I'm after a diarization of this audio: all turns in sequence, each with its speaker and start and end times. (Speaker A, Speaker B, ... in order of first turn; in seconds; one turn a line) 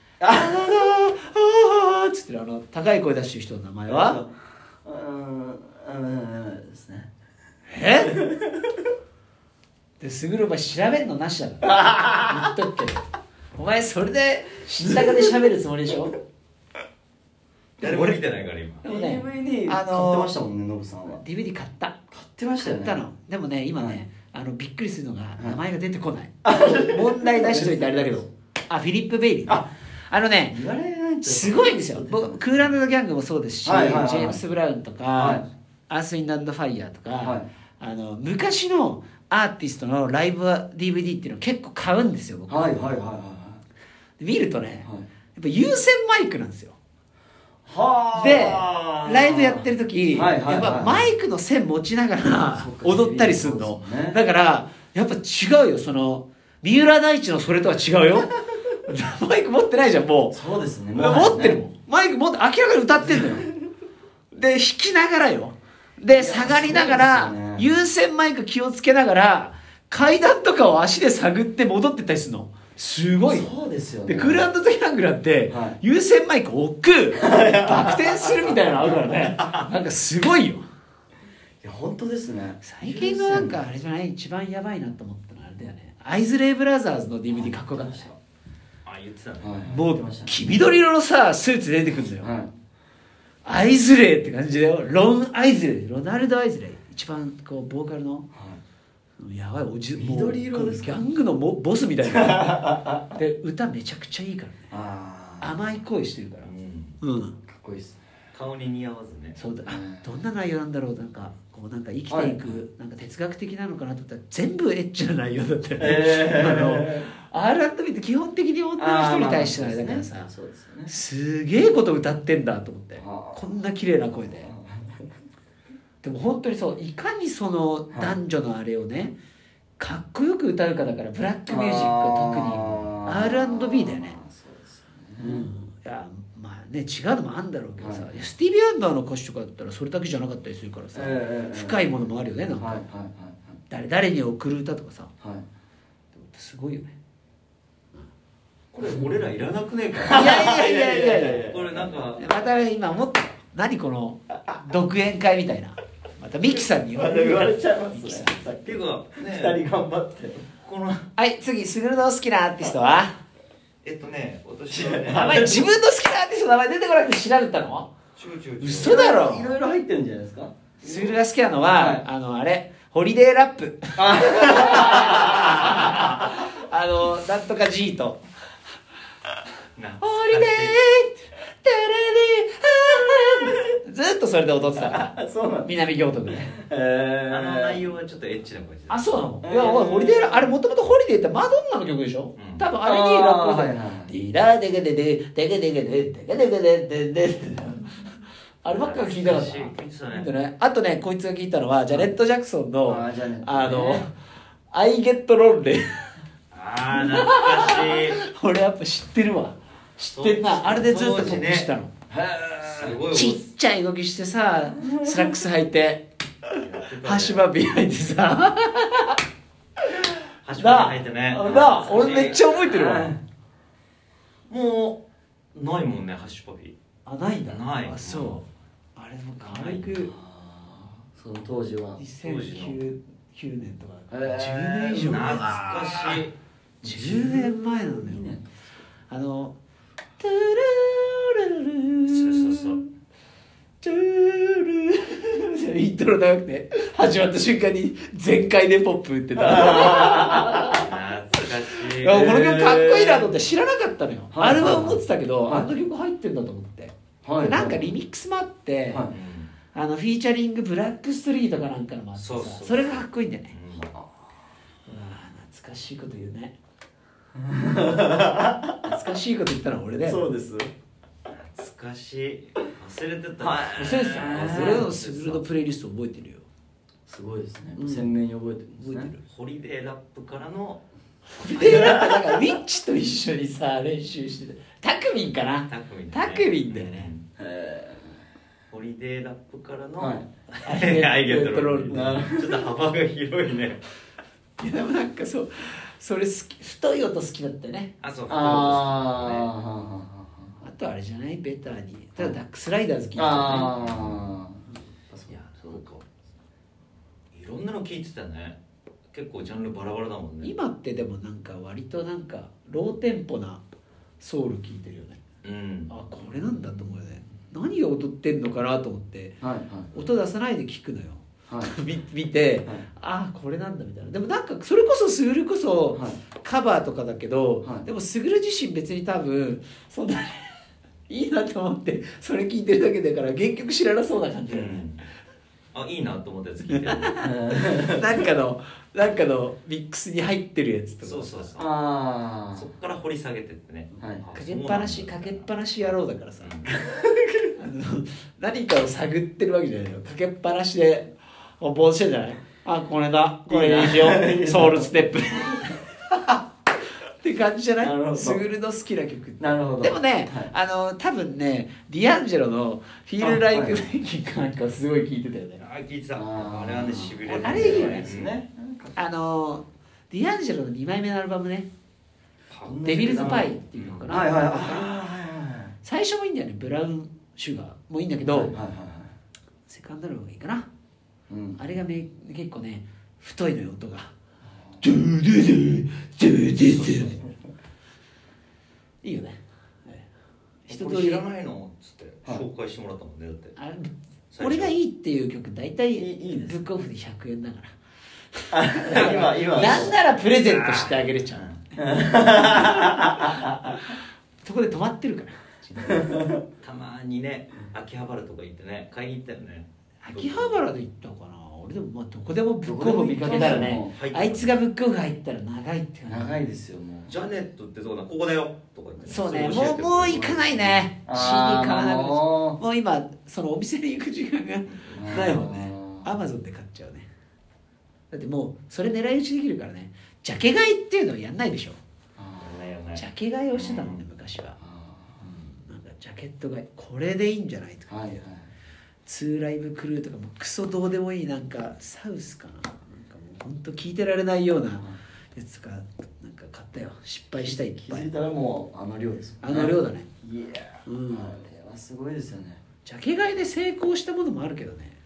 Speaker A: 0.2-0.8
Speaker B: 0.3-4.2
Speaker A: 3.9-7.1
Speaker B: 7.7-8.2
Speaker A: 8.2-8.5
Speaker B: 10.0-13.0
Speaker A: 11.7-12.5
Speaker B: 13.6-16.1
Speaker B: 17.8-18.2
Speaker C: 17.8-18.8
Speaker B: 18.8-20.4
Speaker A: 18.8-21.2
Speaker B: 21.2-22.0
Speaker A: 22.1-23.0
Speaker B: 22.7-30.6
Speaker A: 26.4-28.2
Speaker A: 30.5-32.8
Speaker B: 31.2-42.8
Speaker A: 33.6-34.4
Speaker A: 35.2-35.5
Speaker A: 37.2-37.5
Speaker A: 42.5-43.6
Speaker B: 44.2-46.8
Speaker A: 47.6-51.1
Speaker B: 48.1-58.3
Speaker A: 52.5-54.2
Speaker B: 58.9-60.4
Speaker A: 60.3-61.6
Speaker B: 61.0-63.5
Speaker B: 64.3-73.5
Speaker A: 66.1-67.7
Speaker A: 73.2-74.5
Speaker B: 74.1-80.6
Speaker A: 75.5-75.8
Speaker A: 77.2-79.0
Speaker C: 79.2-79.7
Speaker A: 81.6-83.6
Speaker B: 82.6-88.1
Speaker A: 87.3-88.2
Speaker C: 88.8-89.6
Speaker A: 89.4-90.4
Speaker B: 89.6-92.3
Speaker A: 92.2-92.5
Speaker B: 93.4-98.3
Speaker A: 98.3-98.6
Speaker B: 99.2-104.7
Speaker A: 100.0-101.0
Speaker A: 102.0-103.0
Speaker A: 104.7-105.5
Speaker B: 105.4-107.4
Speaker C: 106.4-107.0
Speaker A: 107.5-108.0
Speaker C: 108.3-109.4
Speaker B: 109.4-120.3
Speaker A: 109.6-110.1
Speaker A: 112.1-112.6
Speaker A: 115.8-117.1
Speaker A: 118.8-120.9
Speaker B: 120.9-124.5
Speaker A: 123.0-123.4
Speaker A: 124.3-125.2
Speaker B: 126.0-129.2
Speaker A: 127.9-128.2
Speaker B: 129.8-134.2
Speaker A: 131.5-135.5
Speaker B: 135.2-142.8
Speaker A: 137.8-138.1
Speaker A: 140.9-141.9
Speaker A: 142.6-143.6
Speaker B: 143.7-145.1
Speaker B: 146.1-146.9
Speaker C: 148.7-150.5
Speaker A: 150.0-151.9
Speaker B: 150.1-151.5
Speaker C: 151.3-152.2
Speaker B: 152.2-158.4
Speaker A: 156.9-160.5
Speaker C: 158.7-159.6
Speaker C: 160.6-161.1
Speaker B: 161.2-163.2
Speaker C: 163.8-165.6
Speaker A: 164.7-165.7
Speaker B: 165.1-167.9
Speaker C: 168.2-169.0
Speaker B: 168.6-169.5
Speaker A: 168.8-172.1
Speaker B: 170.8-178.2
Speaker A: 174.0-175.8
Speaker C: 179.8-180.8
Speaker B: 180.0-185.1
Speaker A: 184.8-185.7
Speaker B: 185.6-186.6
Speaker A: 186.5-187.8
Speaker C: 187.3-189.0
Speaker B: 188.9-198.0
Speaker A: 189.4-190.6
Speaker C: 192.4-192.7
Speaker A: 192.8-194.2
Speaker B: 198.6-204.1
Speaker C: 198.7-200.3
Speaker A: 202.9-204.1
Speaker B: 204.7-206.1
Speaker C: 206.5-208.2
Speaker B: 206.9-211.9
Speaker C: 210.1-211.7
Speaker A: 212.1-213.0
Speaker C: 212.7-213.4
Speaker B: 213.1-216.1
Speaker A: 214.9-215.4
Speaker C: 216.6-217.5
Speaker B: 217.0-219.2
Speaker B: 219.9-223.1
Speaker C: 220.4-222.5
Speaker A: 221.4-223.2
Speaker C: 224.5-226.8
Speaker B: 227.1-230.1
Speaker C: 227.4-228.4
Speaker C: 229.4-229.9
Speaker A: 229.9-232.1
Speaker B: 232.0-236.2
Speaker C: 232.2-232.8
Speaker A: 234.1-236.2
Speaker C: 235.0-236.3
Speaker A: 236.8-238.8
Speaker B: 236.8-238.3
Speaker B: 239.1-239.6
Speaker B: 240.2-242.9
Speaker C: 242.1-242.8
Speaker B: 243.8-250.8
Speaker A: 249.4-250.6
Speaker C: 250.0-252.3
Speaker B: 251.4-259.1
Speaker A: 252.1-253.3
Speaker A: 254.3-255.7
Speaker A: 257.2-258.0
Speaker A: 258.9-259.2
Speaker C: 259.1-259.5
Speaker B: 259.7-263.5
Speaker C: 262.2-263.9
Speaker B: 264.9-266.6
Speaker A: 267.4-268.9
Speaker B: 268.9-270.2
Speaker A: 270.0-270.7
Speaker C: 271.3-275.4
Speaker A: 273.4-274.9
Speaker B: 273.7-276.5
Speaker A: 277.1-279.1
Speaker B: 277.8-278.1
Speaker B: 278.8-279.2
Speaker C: 279.2-280.8
Speaker B: 281.3-287.1
Speaker C: 281.6-282.2
Speaker C: 285.7-287.2
Speaker A: 287.4-288.2
Speaker C: 288.7-293.8
Speaker A: 290.0-290.3
Speaker B: 290.6-292.2
Speaker A: 291.9-292.7
Speaker B: 294.6-298.7
Speaker C: 298.0-299.5
Speaker A: 298.3-300.6
Speaker B: 300.6-304.2
Speaker A: 303.2-305.8
Speaker C: 305.3-306.1
Speaker C: 307.3-308.6
Speaker C: 309.1-310.5
Speaker B: 310.4-313.6
Speaker B: 314.2-315.2
Speaker C: 315.4-315.9
Speaker B: 315.9-319.4
Speaker A: 319.4-319.9
Speaker B: 319.9-330.6
Speaker A: 321.5-321.7
Speaker A: 325.9-326.2
Speaker B: 331.1-334.8
Speaker C: 334.5-335.0
Speaker C: 335.7-337.2
Speaker B: 336.7-341.5
Speaker A: 337.2-338.2
Speaker C: 341.0-341.7
Speaker A: 341.6-342.7
Speaker C: 342.6-345.9
Speaker A: 344.0-344.3
Speaker B: 344.4-346.6
Speaker C: 346.4-346.7
Speaker A: 346.8-347.5
Speaker B: 347.6-355.8
Speaker A: 353.5-355.1
Speaker B: 357.2-365.6
Speaker A: 357.8-358.4
Speaker A: 359.4-360.5
Speaker A: 363.2-363.9
Speaker C: 365.6-368.4
Speaker A: 366.1-369.0
Speaker B: 367.2-368.1
Speaker B: 369.0-371.7
Speaker C: 372.5-372.8
Speaker A: 372.6-375.8
Speaker B: 372.8-375.0
Speaker C: 373.7-374.1
Speaker B: 375.8-378.6
Speaker A: 378.3-379.1
Speaker B: 379.7-380.7
Speaker A: 381.3-381.6
Speaker B: 381.6-384.1
Speaker A: 384.6-384.8
Speaker B: 384.8-387.2
Speaker C: 386.6-387.2
Speaker B: 389.0-390.1
Speaker B: 390.7-391.2
Speaker C: 390.7-393.6
Speaker B: 393.6-397.7
Speaker C: 394.3-394.8
Speaker A: 396.0-396.6
Speaker B: 398.4-401.6
Speaker A: 398.5-400.0
Speaker C: 398.9-401.6
Speaker A: 401.8-403.7
Speaker B: 404.4-406.1
Speaker A: 405.9-406.4
Speaker C: 406.6-410.6
Speaker B: 410.0-416.3
Speaker A: 412.6-414.0
Speaker C: 413.3-414.5
Speaker A: 416.1-417.2
Speaker C: 417.1-420.8
Speaker B: 419.0-427.1
Speaker A: 420.4-422.6
Speaker C: 424.6-425.0
Speaker A: 424.9-426.1
Speaker B: 428.1-431.8
Speaker A: 432.2-432.6
Speaker C: 432.4-434.0
Speaker B: 433.0-434.6
Speaker A: 434.6-435.3
Speaker B: 435.3-438.2
Speaker A: 437.9-438.5
Speaker B: 439.1-448.1
Speaker A: 447.4-452.6
Speaker B: 449.4-450.1
Speaker B: 450.9-451.4
Speaker B: 452.8-454.9